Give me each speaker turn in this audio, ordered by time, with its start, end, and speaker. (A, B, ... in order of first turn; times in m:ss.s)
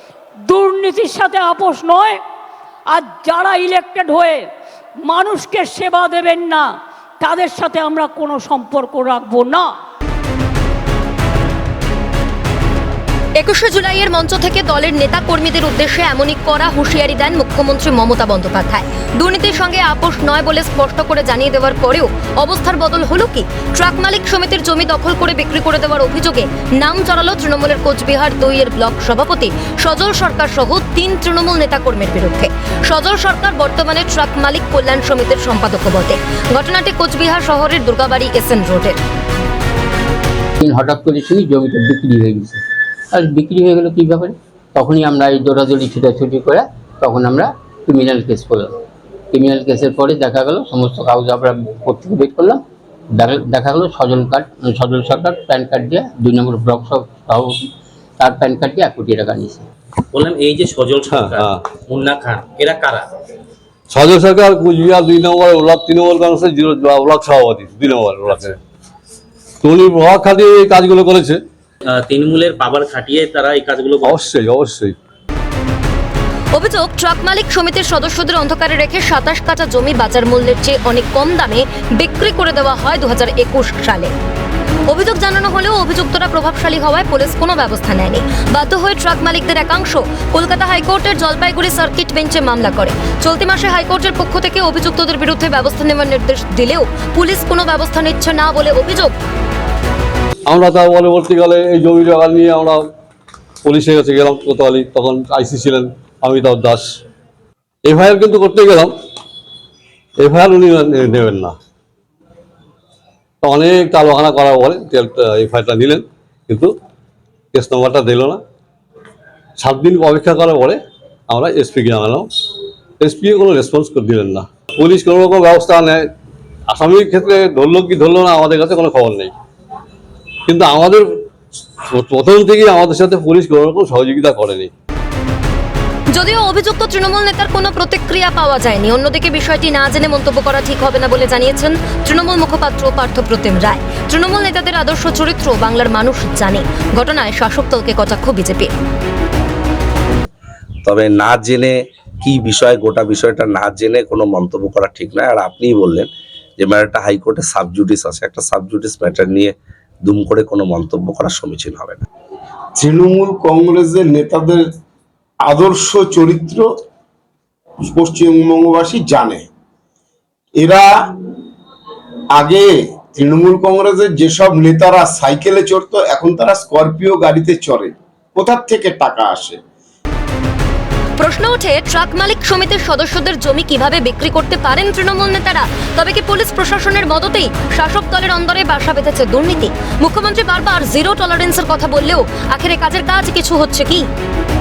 0:00.5-0:02.2 A
0:02.9-0:04.4 A
0:05.0-0:06.7 A
0:07.2-0:09.7 A
0:13.4-0:39.0 B
0:40.6-0:48.7 C
0:49.3-0:52.6 C
0:53.1-0:57.6 C
0:58.2-0:59.6 C
1:00.1-1:03.1 D
1:01.1-1:01.6 E
1:03.9-1:08.6 E
1:09.6-1:11.4 E
1:11.9-1:14.1 D
1:14.0-1:15.0 E
1:16.5-1:24.1 B
1:24.9-1:39.1 B
1:40.5-1:42.8 E
1:43.6-1:47.0 E
1:47.8-1:48.9 E
1:50.2-1:51.6 E
1:53.4-1:56.7 E
1:57.5-1:58.4 E
1:59.6-2:02.3 E
2:03.0-2:06.1 E
2:06.7-2:09.3 E
2:10.5-2:11.0 E
2:11.9-2:14.7 E
2:16.1-2:28.7 B
2:30.8-2:42.0 F
2:42.8-2:44.6 G
2:45.4-2:46.6 G
2:47.9-2:49.4 G
2:50.6-2:50.9 G
2:52.3-2:59.6 G
3:01.2-3:14.1 B